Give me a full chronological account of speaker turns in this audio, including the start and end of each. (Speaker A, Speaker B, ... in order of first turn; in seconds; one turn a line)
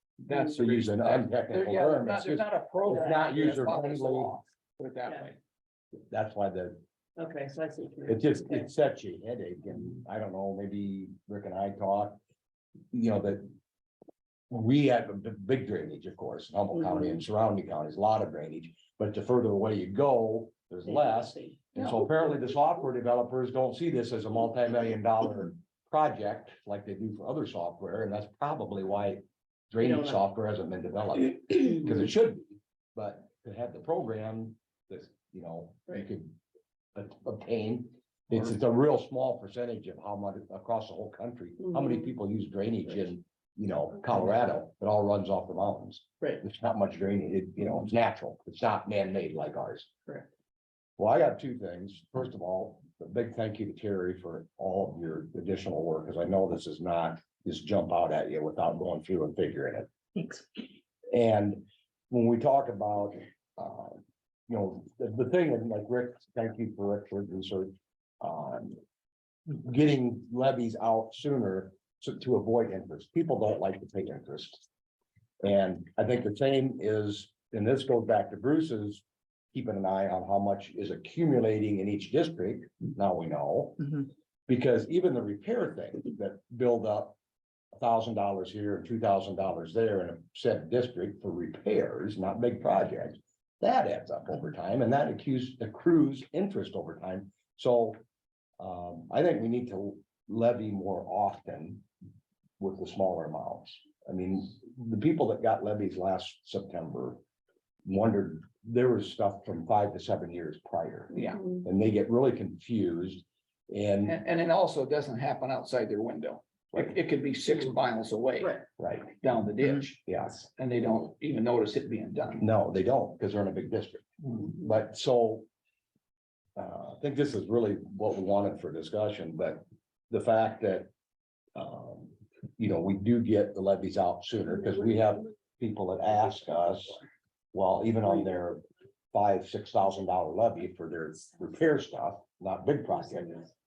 Speaker A: 0.2-5.4
Speaker B: 0.4-4.4
Speaker B: 6.1-6.8
Speaker C: 7.2-8.7
Speaker B: 8.1-12.2
Speaker B: 12.9-13.5
Speaker B: 14.5-36.4
Speaker C: 16.7-17.2
Speaker C: 20.9-21.6
Speaker A: 21.8-22.0
Speaker C: 29.8-30.2
Speaker B: 37.0-49.9
Speaker B: 51.0-60.4
Speaker B: 61.1-68.8
Speaker B: 69.5-74.7
Speaker B: 75.4-87.2
Speaker B: 87.7-98.0
Speaker B: 98.6-101.8
Speaker B: 102.6-107.2
Speaker B: 107.8-114.2
Speaker A: 111.1-111.4
Speaker A: 114.0-120.0
Speaker B: 118.8-119.2
Speaker B: 119.8-120.5
Speaker A: 120.5-122.5
Speaker B: 122.4-125.5
Speaker B: 126.6-130.9
Speaker B: 131.6-137.0
Speaker B: 137.5-143.4